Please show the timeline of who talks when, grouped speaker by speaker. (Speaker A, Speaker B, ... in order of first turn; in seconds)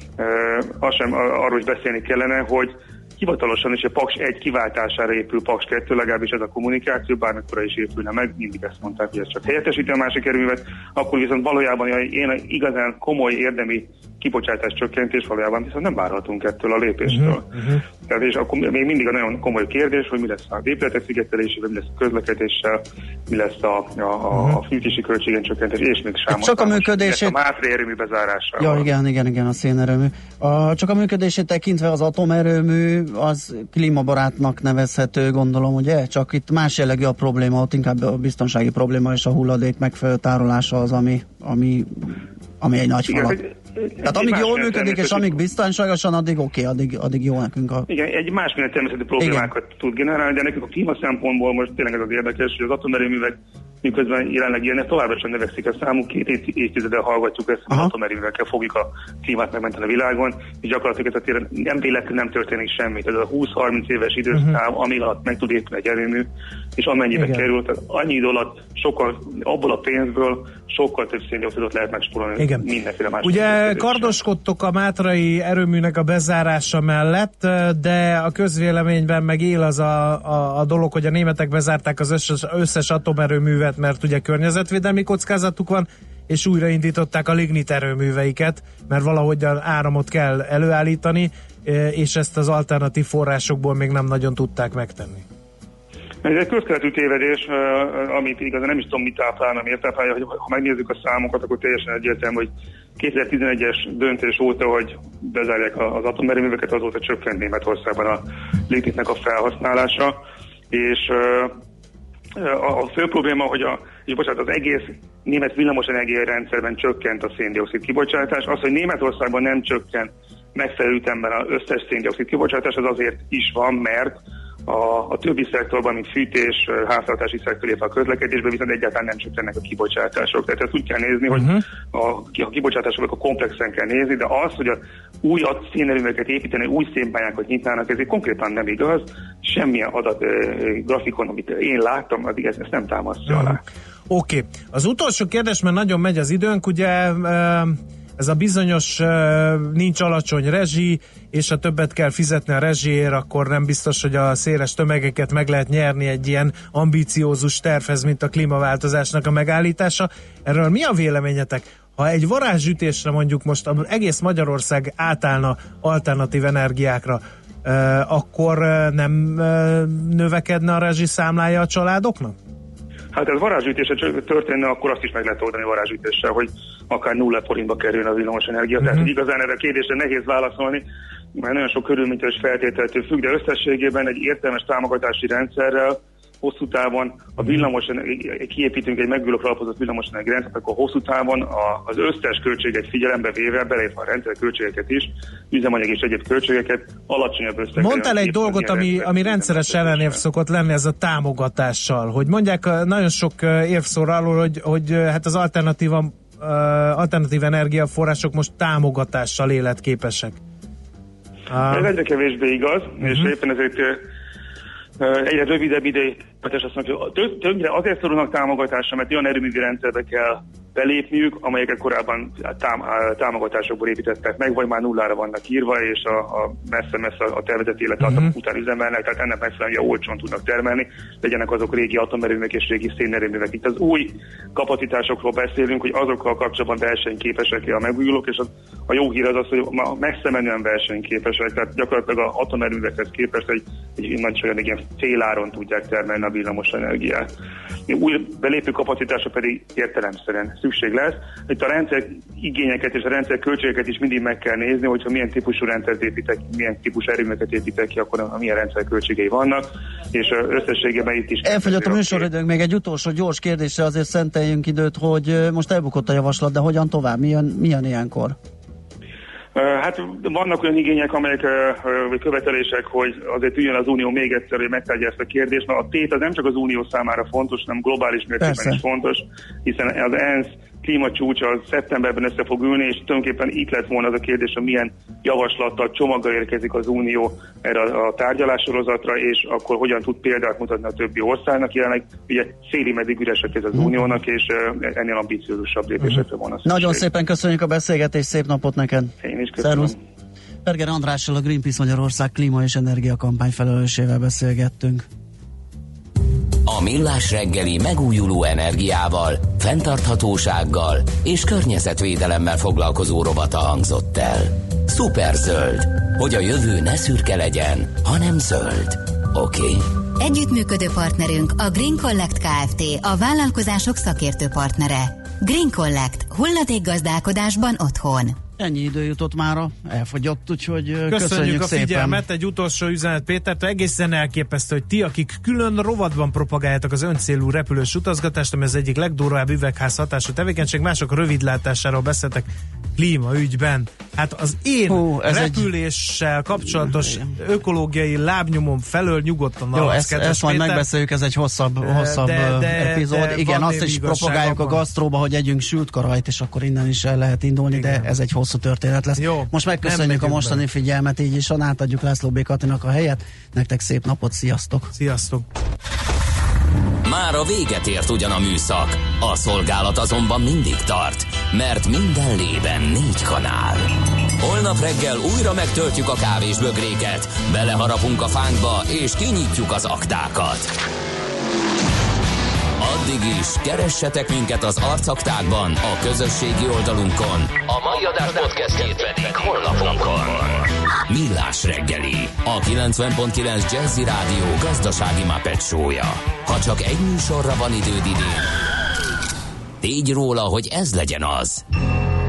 Speaker A: 0.2-17.5, 18.1-28.9, 43.1-45.4, 47.9-74.2, 96.2-110.2, 110.7-111.5, 112.3-124.1, 124.7-143.6, 173.1-180.8, 181.4-200.2, 211.7-214.0, 215.0-247.3, 247.9-262.3, 269.6-297.1, 299.2-300.0
Speaker B: 17.1-17.8, 24.3-24.6, 67.2-67.4, 72.4-72.7, 73.2-95.2, 131.3-131.6, 143.3-143.6, 144.1-172.3, 197.8-210.4, 211.5-211.9, 213.0-213.3, 331.1-350.8, 351.8-354.8, 357.7-358.1, 359.2-360.6, 365.0-365.4
Speaker C: 26.3-27.4, 28.6-43.4, 44.0-47.9, 261.4-268.4, 278.4-278.8, 296.6-299.9, 300.6-305.1, 328.6-332.2, 344.9-345.7, 346.6-347.4, 349.8-364.9
Speaker D: 306.6-319.9, 367.0-380.8, 382.8-398.5, 399.8-401.6
Speaker E: 320.2-328.4